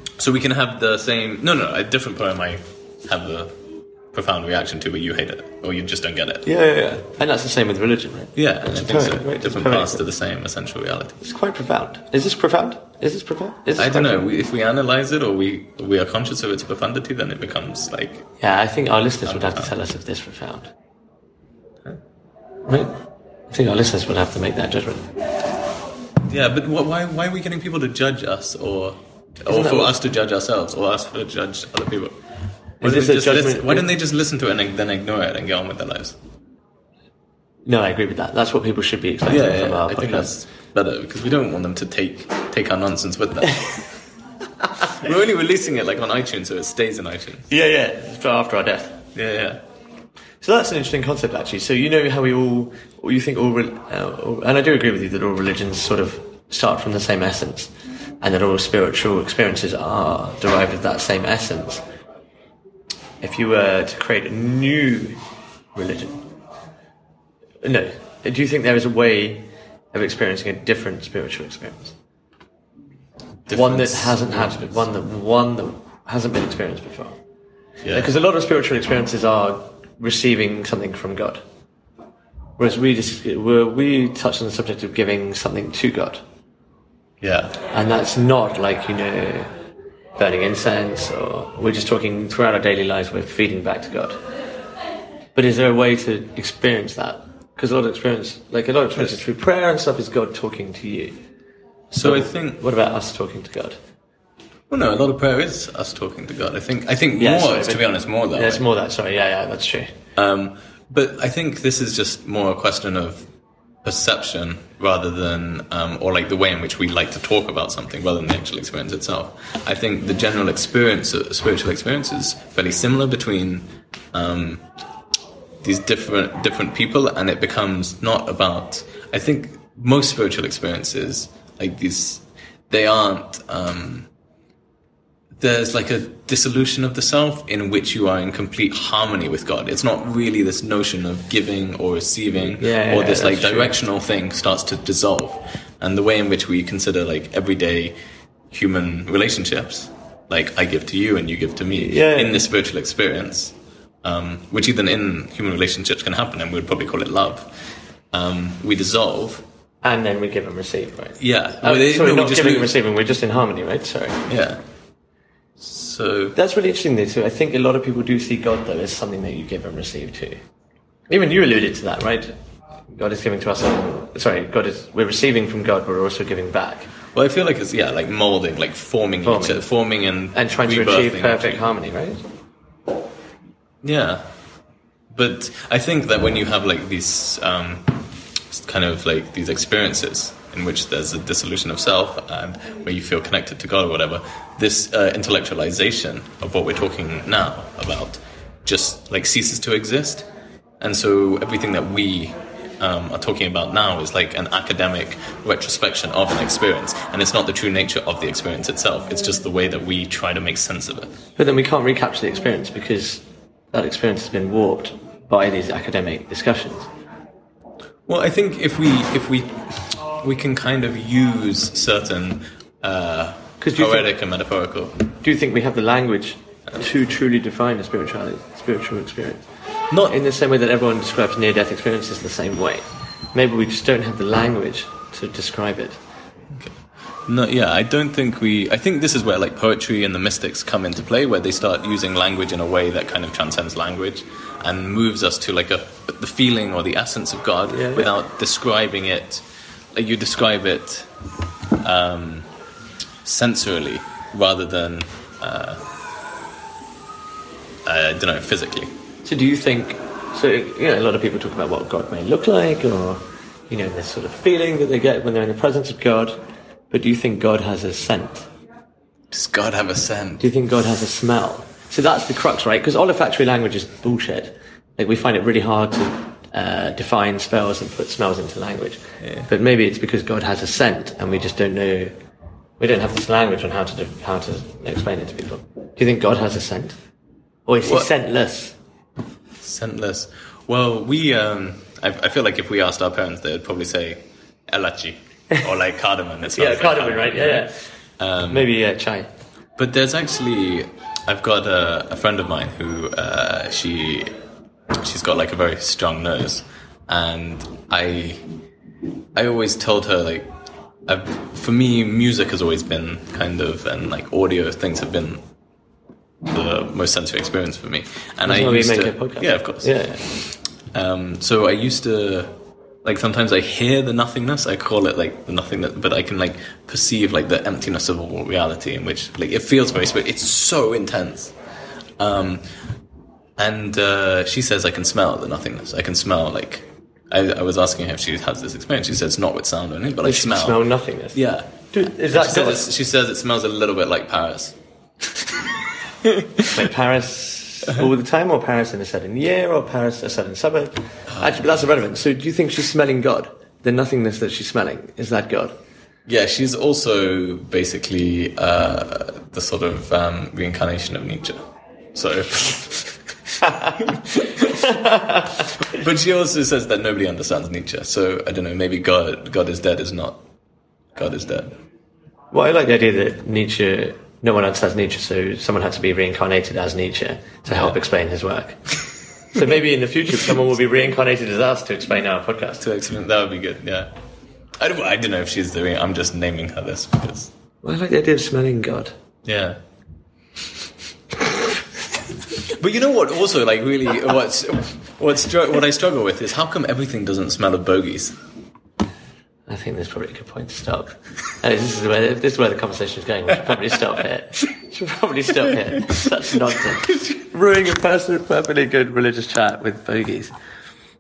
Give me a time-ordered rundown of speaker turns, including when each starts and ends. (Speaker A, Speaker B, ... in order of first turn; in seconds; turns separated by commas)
Speaker A: 0.2-3.5, Speaker A: 4.1-6.5, Speaker B: 6.5-10.0, Speaker A: 8.4-11.2, Speaker B: 11.2-14.3, Speaker A: 13.8-18.2, Speaker B: 18.4-20.7, Speaker A: 19.3-19.7, Speaker B: 22.6-22.9, Speaker B: 23.5-25.1, Speaker A: 26.3-32.2, Speaker B: 29.5-30.0, Speaker B: 32.8-33.9, Speaker A: 32.8-36.2, Speaker B: 37.7-40.3, Speaker A: 39.3-44.0, Speaker A: 44.8-47.5, Speaker B: 47.5-49.0, Speaker A: 49.1-49.6, Speaker B: 50.4-61.8, Speaker B: 63.2-65.2, Speaker B: 65.7-66.2, Speaker B: 67.6-71.9, Speaker A: 73.5-74.9, Speaker B: 73.5-77.2, Speaker A: 77.8-78.1, Speaker B: 77.9-81.4, Speaker B: 82.6-86.2, Speaker A: 87.2-87.6, Speaker B: 87.7-89.5, Speaker B: 90.2-94.2, Speaker B: 95.3-101.1, Speaker B: 101.9-103.8, Speaker A: 102.0-102.6, Speaker A: 104.7-108.6, Speaker B: 107.2-109.9, Speaker A: 110.2-113.2, Speaker A: 113.8-124.6, Speaker A: 125.6-134.1, Speaker A: 135.4-147.9, Speaker B: 142.6-143.8, Speaker A: 148.5-157.5, Speaker B: 151.7-152.4, Speaker A: 158.1-159.4, Speaker B: 159.8-164.3, Speaker A: 161.2-162.7, Speaker A: 164.3-164.6, Speaker A: 165.6-166.4, Speaker B: 166.4-170.4, Speaker B: 171.1-172.3, Speaker B: 172.9-176.9, Speaker A: 177.1-181.6, Speaker B: 179.2-179.7, Speaker B: 180.3-182.2, Speaker A: 183.8-184.2, Speaker A: 185.1-188.0, Speaker A: 188.5-200.3, Speaker A: 200.8-211.1, Speaker B: 211.4-216.9, Speaker A: 218.1-224.9, Speaker B: 223.6-224.1, Speaker B: 225.2-229.5, Speaker A: 229.9-230.2, Speaker B: 230.1-236.0, Speaker A: 237.3-249.4, Speaker B: 247.7-248.1, Speaker A: 249.9-251.1, Speaker A: 251.8-252.5, Speaker A: 253.2-255.8, Speaker A: 257.8-258.9, Speaker B: 259.2-266.4, Speaker B: 266.9-268.5, Speaker A: 269.3-270.4, Speaker B: 270.4-282.1, Speaker A: 279.2-279.5, Speaker B: 282.8-287.0, Speaker B: 287.6-288.8, Speaker A: 287.8-288.1, Speaker A: 289.6-298.7, Speaker B: 296.5-297.7, Speaker B: 298.5-299.3, Speaker A: 299.8-304.3, Speaker A: 305.0-308.4, Speaker A: 309.4-310.5, Speaker A: 311.1-315.4, Speaker A: 316.4-322.5, Speaker B: 318.4-320.2, Speaker A: 323.0-331.5, Speaker A: 332.2-332.6, Speaker A: 333.6-340.8, Speaker B: 340.2-342.9, Speaker A: 341.3-344.8, Speaker A: 346.2-346.7, Speaker B: 346.7-355.7, Speaker A: 351.3-351.7, Speaker A: 356.3-361.6, Speaker A: 362.1-363.2, Speaker A: 364.0-364.8, Speaker B: 364.6-365.5, Speaker A: 365.7-370.4, Speaker A: 371.1-371.7, Speaker B: 372.5-378.9, Speaker A: 377.7-377.9, Speaker B: 379.5-382.8, Speaker A: 382.8-384.1, Speaker A: 384.8-387.5, Speaker B: 387.8-389.1, Speaker A: 389.4-389.8, Speaker A: 392.6-398.4, Speaker B: 399.7-410.6